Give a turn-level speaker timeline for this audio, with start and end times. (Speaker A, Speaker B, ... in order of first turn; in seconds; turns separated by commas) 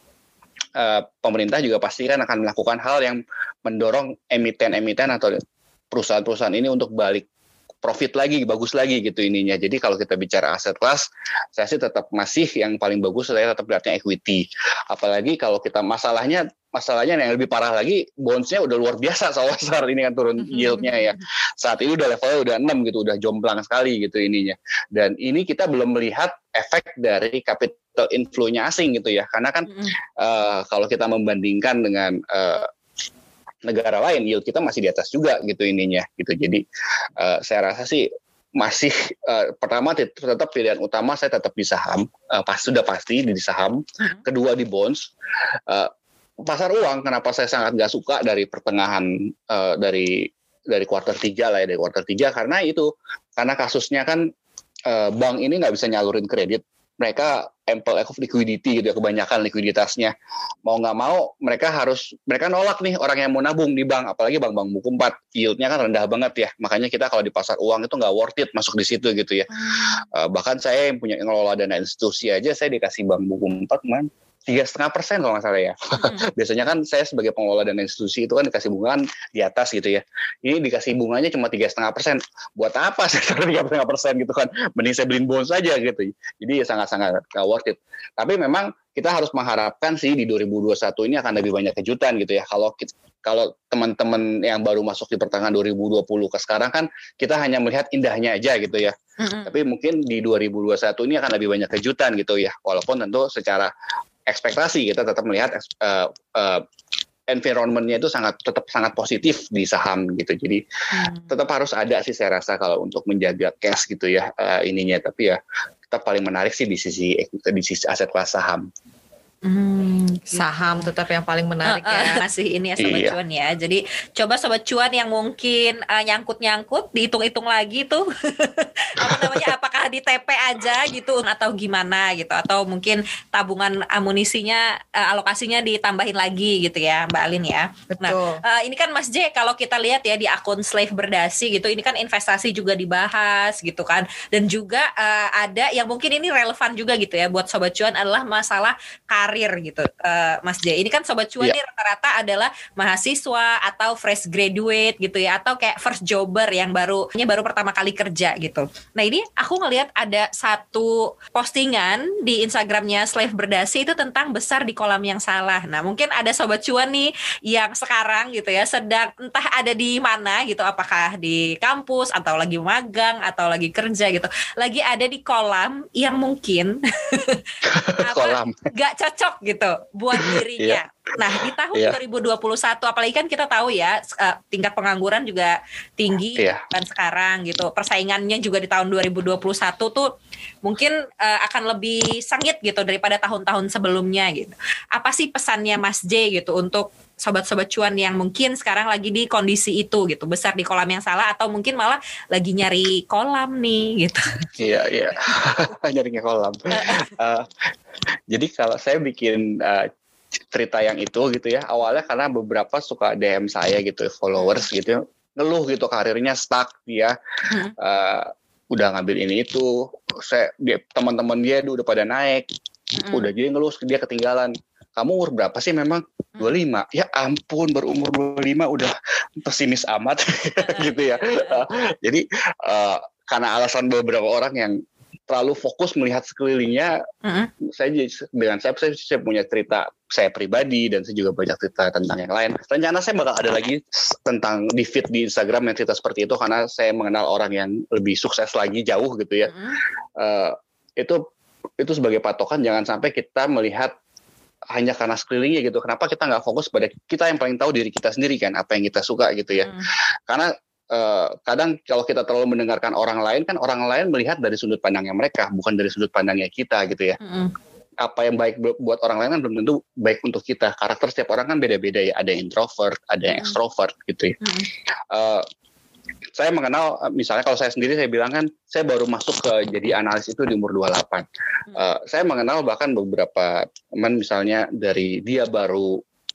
Speaker A: 0.8-7.3, Speaker A: 7.8-32.7, Speaker B: 20.5-21.2, Speaker B: 29.7-29.9, Speaker A: 33.6-36.6, Speaker A: 37.2-45.1, Speaker A: 46.5-54.2, Speaker A: 54.9-60.1, Speaker A: 60.6-98.9, Speaker B: 69.5-70.0, Speaker B: 76.0-76.2, Speaker B: 99.2-99.5, Speaker A: 99.5-103.7, Speaker A: 104.3-106.6, Speaker A: 107.3-110.6, Speaker B: 110.9-111.3, Speaker A: 111.3-115.4, Speaker A: 115.9-118.7, Speaker B: 119.4-120.9, Speaker C: 120.3-122.2, Speaker B: 121.7-177.4, Speaker A: 122.8-123.1, Speaker A: 129.1-129.4, Speaker C: 137.9-138.4, Speaker A: 177.7-178.7, Speaker B: 178.0-190.1, Speaker A: 180.2-180.8, Speaker B: 190.6-204.4, Speaker A: 204.6-207.5, Speaker B: 206.8-207.1, Speaker A: 208.3-209.9, Speaker A: 210.5-217.2, Speaker B: 214.3-214.6, Speaker A: 217.8-222.5, Speaker B: 222.9-223.2, Speaker A: 223.1-236.9, Speaker B: 230.6-231.6, Speaker B: 237.2-237.5, Speaker A: 237.7-249.5, Speaker B: 249.4-249.8, Speaker A: 250.2-251.2, Speaker A: 251.8-253.9, Speaker A: 254.7-259.7, Speaker B: 259.6-259.9, Speaker A: 260.3-267.2, Speaker B: 267.2-267.5, Speaker A: 268.0-274.4, Speaker B: 273.3-273.6, Speaker B: 274.4-274.7, Speaker A: 275.1-275.4, Speaker A: 276.4-286.0